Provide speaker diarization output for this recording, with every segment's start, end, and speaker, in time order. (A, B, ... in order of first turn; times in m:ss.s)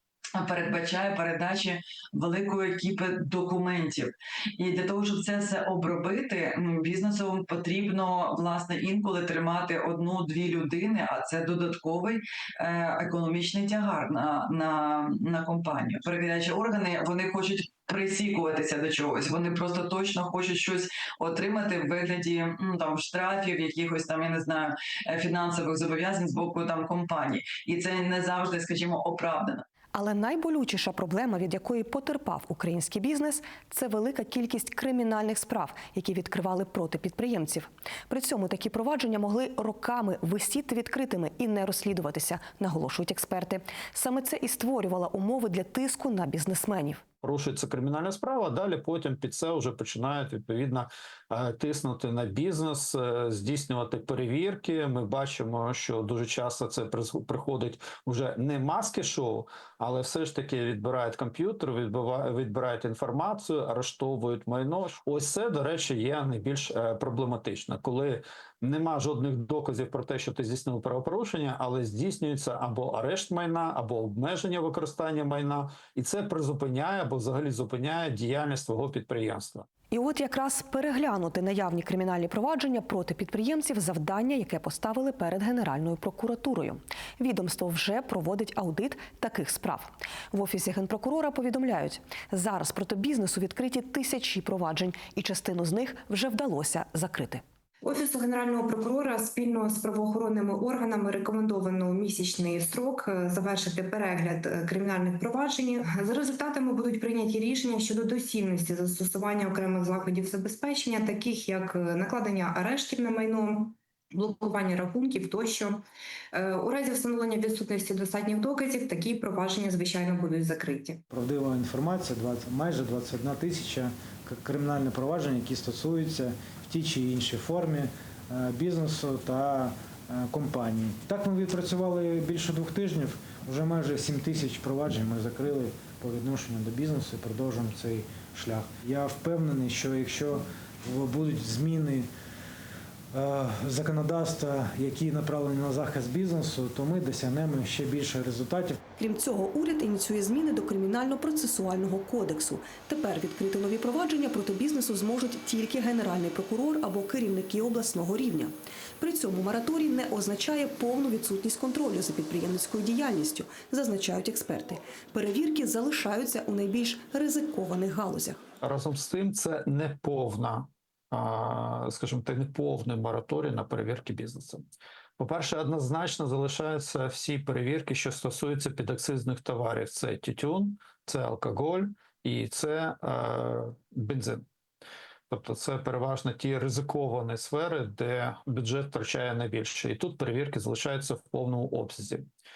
0:00.4-0:29.6 A
0:29.9-0:47.0 B
0:47.2-1:19.7 C
1:19.9-1:37.4 B
1:37.8-1:55.8 D
1:56.3-2:01.0 D
2:01.1-2:22.1 E
2:23.1-2:28.8 E
2:29.0-2:48.4 B
2:48.6-2:54.7 C
2:55.2-3:04.4 C
3:05.3-3:12.3 C